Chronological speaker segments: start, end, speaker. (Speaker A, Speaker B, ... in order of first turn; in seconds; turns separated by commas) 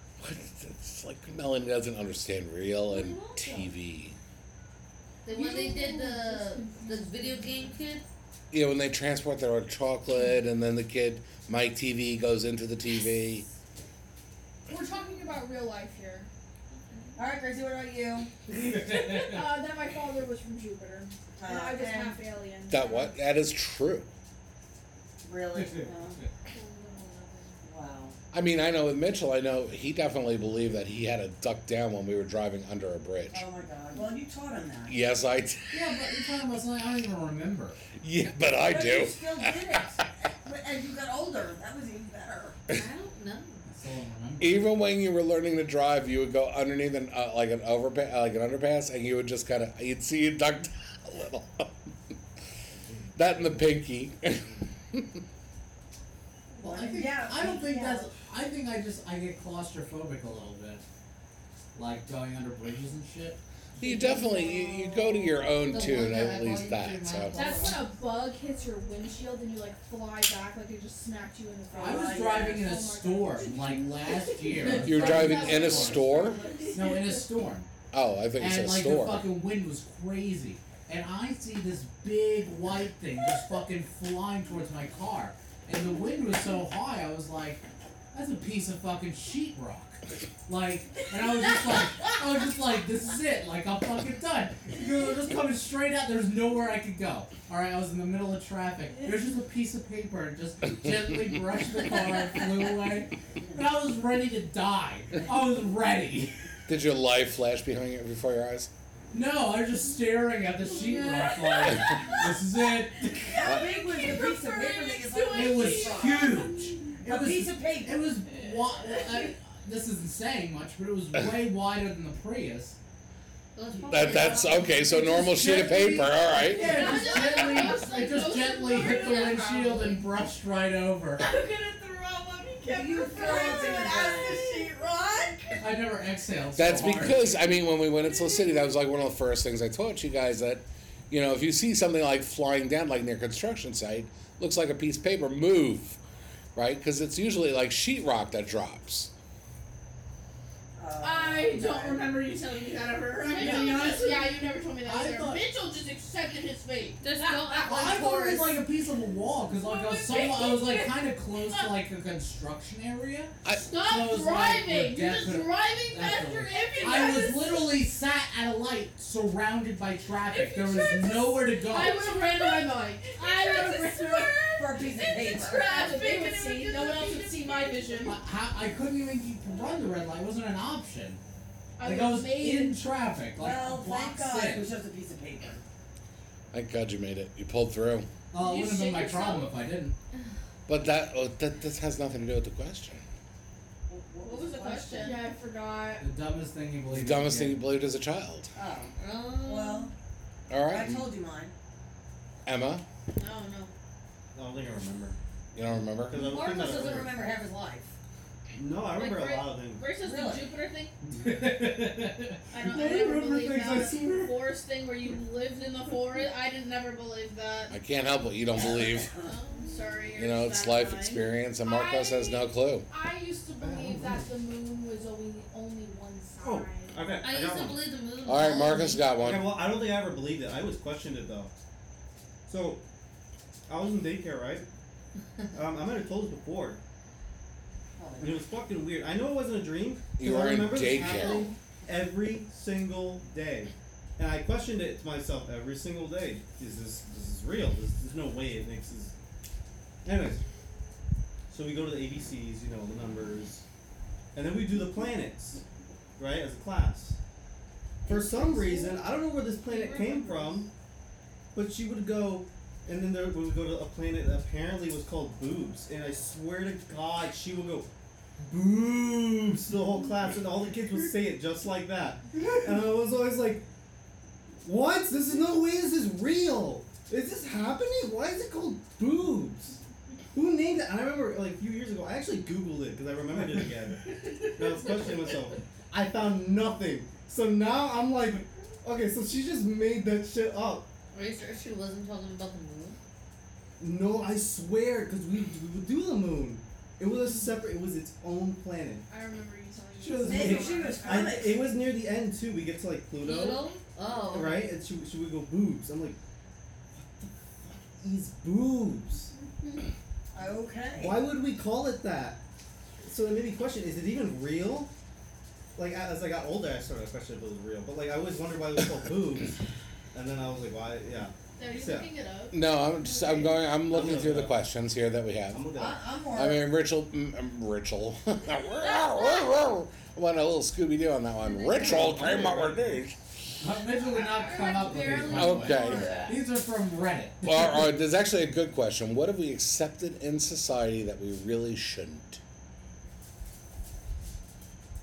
Speaker A: 0.2-4.2, Speaker B: 2.8-3.7, Speaker B: 5.2-8.1, Speaker C: 5.3-7.7, Speaker A: 8.5-13.5, Speaker C: 14.7-16.3, Speaker D: 17.1-18.3, Speaker E: 18.5-19.5, Speaker C: 18.7-23.1, Speaker D: 21.4-22.2, Speaker A: 22.7-24.1, Speaker D: 25.2-26.1, Speaker E: 25.5-26.3, Speaker C: 26.5-27.5, Speaker D: 27.6-28.1, Speaker A: 28.3-33.4, Speaker D: 33.3-34.9, Speaker A: 34.9-35.9, Speaker E: 35.7-37.8, Speaker A: 38.0-39.5, Speaker D: 38.6-42.6, Speaker B: 42.7-43.6, Speaker E: 43.6-44.7, Speaker A: 44.4-51.9, Speaker A: 53.1-55.2, Speaker E: 56.6-60.8, Speaker D: 56.6-58.1, Speaker E: 61.7-64.1, Speaker A: 63.8-67.3, Speaker B: 63.8-67.8, Speaker C: 67.3-77.3, Speaker D: 71.7-72.7, Speaker E: 71.8-76.1, Speaker A: 74.8-76.4, Speaker F: 74.9-77.2, Speaker E: 76.7-77.7, Speaker A: 77.9-79.3, Speaker E: 78.4-106.4, Speaker B: 91.4-92.1, Speaker A: 100.6-101.4, Speaker A: 106.7-108.7, Speaker E: 109.1-113.5, Speaker C: 110.7-112.0, Speaker D: 113.2-116.5, Speaker C: 113.6-116.8, Speaker E: 115.3-122.8, Speaker D: 117.0-118.0, Speaker B: 123.5-125.1, Speaker A: 123.9-126.8, Speaker E: 124.8-131.3, Speaker C: 126.5-127.9, Speaker F: 126.6-129.4, Speaker C: 128.8-129.6, Speaker B: 128.9-130.1, Speaker C: 131.2-135.6, Speaker D: 132.7-135.3, Speaker E: 135.6-137.5, Speaker A: 136.6-146.0, Speaker C: 138.3-138.7, Speaker A: 146.5-149.1, Speaker D: 150.8-152.1, Speaker C: 151.0-154.5, Speaker F: 151.8-152.2, Speaker F: 153.1-157.0, Speaker E: 153.4-153.9, Speaker E: 154.8-155.4, Speaker B: 157.0-158.6, Speaker E: 157.2-172.1, Speaker C: 159.6-160.8, Speaker F: 160.0-160.9, Speaker A: 163.4-163.7, Speaker F: 163.5-167.5, Speaker C: 166.0-167.8, Speaker C: 170.2-178.2, Speaker F: 171.7-174.3, Speaker D: 174.5-175.9, Speaker F: 175.3-178.2, Speaker E: 178.0-181.2, Speaker C: 181.8-182.8, Speaker F: 181.8-182.4, Speaker E: 181.8-184.7, Speaker D: 183.3-185.6, Speaker A: 186.5-188.1, Speaker E: 188.3-189.9, Speaker F: 188.4-189.5, Speaker A: 190.7-193.0, Speaker D: 193.9-195.2, Speaker F: 194.2-195.2, Speaker C: 195.0-196.1, Speaker E: 196.0-197.6, Speaker A: 196.9-198.5, Speaker D: 198.6-199.9, Speaker B: 198.9-199.9, Speaker A: 200.5-201.0, Speaker D: 200.7-201.5, Speaker A: 202.4-202.8, Speaker F: 203.2-203.7, Speaker G: 204.3-205.2, Speaker A: 205.5-206.2, Speaker G: 206.0-207.1, Speaker D: 206.1-207.9, Speaker G: 208.5-209.8, Speaker F: 208.9-210.9, Speaker D: 210.0-210.5, Speaker E: 211.0-214.0, Speaker F: 212.5-217.7, Speaker G: 212.7-214.3, Speaker A: 217.7-219.1, Speaker D: 218.6-219.4, Speaker B: 219.2-219.8, Speaker F: 219.6-222.2, Speaker A: 220.2-222.9, Speaker C: 221.7-222.4, Speaker C: 222.9-227.0, Speaker G: 223.6-224.3, Speaker G: 226.4-227.9, Speaker B: 227.1-229.1, Speaker A: 228.2-229.6, Speaker G: 229.1-231.5, Speaker G: 232.5-232.8, Speaker G: 233.7-234.7, Speaker G: 235.5-236.8, Speaker D: 238.0-238.4, Speaker G: 238.2-249.1, Speaker A: 240.2-241.5, Speaker G: 250.0-250.4, Speaker G: 251.5-253.6, Speaker G: 254.3-255.6, Speaker G: 256.2-257.2, Speaker G: 258.1-260.7, Speaker D: 258.1-258.8, Speaker F: 259.6-260.6, Speaker G: 261.5-267.9, Speaker G: 268.4-273.6, Speaker G: 274.6-279.8, Speaker G: 280.3-290.9, Speaker C: 284.6-285.0, Speaker B: 291.1-293.0, Speaker G: 293.8-299.1, Speaker C: 299.1-301.5, Speaker G: 300.0-303.8, Speaker D: 300.2-301.6, Speaker B: 303.2-304.7, Speaker G: 304.3-306.2, Speaker G: 306.9-309.3, Speaker F: 309.6-309.8, Speaker D: 310.3-311.2, Speaker G: 310.9-312.4, Speaker G: 313.0-314.9, Speaker G: 315.7-322.1, Speaker F: 321.6-322.5, Speaker A: 322.5-325.7, Speaker D: 323.0-323.6, Speaker G: 323.9-324.6, Speaker G: 325.5-326.0, Speaker D: 325.7-326.6, Speaker A: 326.3-333.2, Speaker B: 331.4-332.1, Speaker G: 331.8-333.0, Speaker E: 333.6-337.9, Speaker C: 334.0-336.3, Speaker A: 335.3-336.1, Speaker A: 337.4-342.4